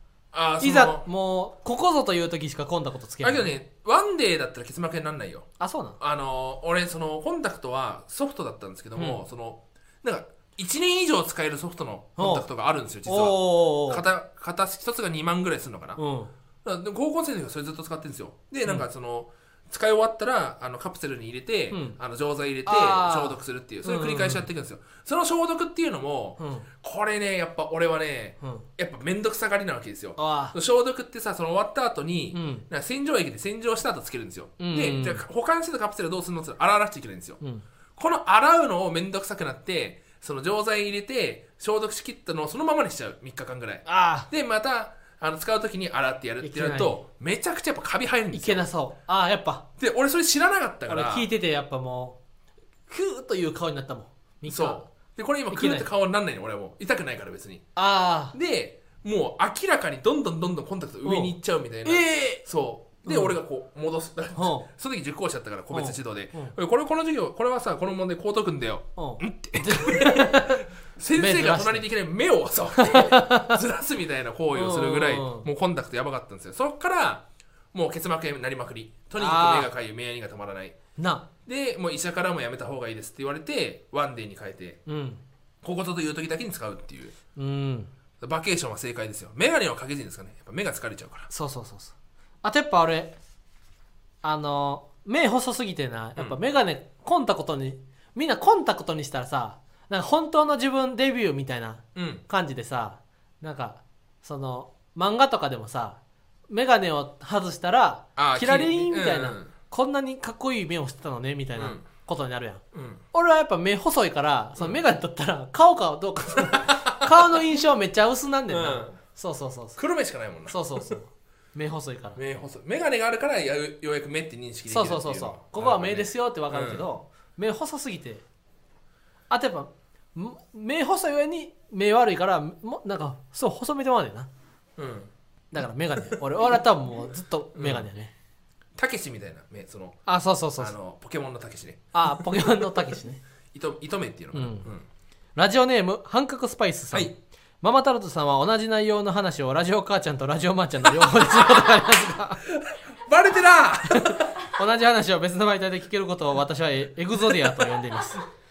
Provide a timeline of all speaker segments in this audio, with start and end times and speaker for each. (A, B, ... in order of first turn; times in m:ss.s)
0:00.3-0:01.0 A
0:00.6-0:03.5 B
0:03.2-0:05.5 A
0:05.6-0:06.0 B
0:06.0-0:16.0 A
0:09.0-0:09.2 B
0:12.2-0:12.4 B
0:13.0-0:14.0 B
0:16.0-0:16.3 B
0:16.6-0:37.4 A
0:22.6-0:24.5 B
0:26.4-0:26.6 B
0:30.2-0:30.6 B
0:32.3-0:32.6 B
0:34.6-0:35.2 B
0:38.0-0:48.6 A
0:43.8-0:44.3 B
0:46.4-0:47.0 B
0:48.3-0:49.6 B
0:49.8-0:51.3 A
0:50.9-0:52.2 B
0:52.9-0:54.8 B
0:54.4-0:57.7 A
0:55.5-0:55.9 B
0:57.8-0:58.3 B
0:58.3-1:20.8 A
1:01.0-1:02.4 B
1:03.0-1:03.4 B
1:04.3-1:04.7 B
1:05.7-1:06.5 B
1:09.0-1:11.8 B
1:12.8-1:13.6 B
1:14.5-1:15.5 B
1:19.2-1:19.7 B
1:21.0-1:21.3 B
1:21.4-1:24.8 A
1:24.8-1:25.2 B
1:25.6-1:27.1 A
1:27.4-1:27.9 B
1:28.2-1:31.3 A
1:31.3-1:33.1 B
1:34.2-1:46.0 B
1:41.9-1:42.2 A
1:46.5-1:52.6 B
1:48.2-1:49.5 A
1:51.6-1:51.8 A
1:52.7-1:53.0 A
1:53.1-1:59.8 B
1:56.4-1:57.3 A
1:58.5-1:59.0 A
1:59.8-2:00.9 A
2:00.5-2:02.2 B
2:02.2-2:06.8 A
2:04.7-2:08.2 B
2:09.3-2:14.3 B
2:14.8-2:15.1 A
2:15.5-2:18.1 B
2:17.5-2:17.9 A
2:18.8-2:20.0 A
2:20.0-2:20.7 B
2:20.6-2:22.9 A
2:21.9-2:23.2 B
2:23.5-2:24.8 A
2:24.3-2:24.7 B
2:25.4-2:32.4 B
2:31.0-2:31.8 A
2:32.4-2:34.3 A
2:33.8-2:38.2 B
2:37.3-2:37.8 A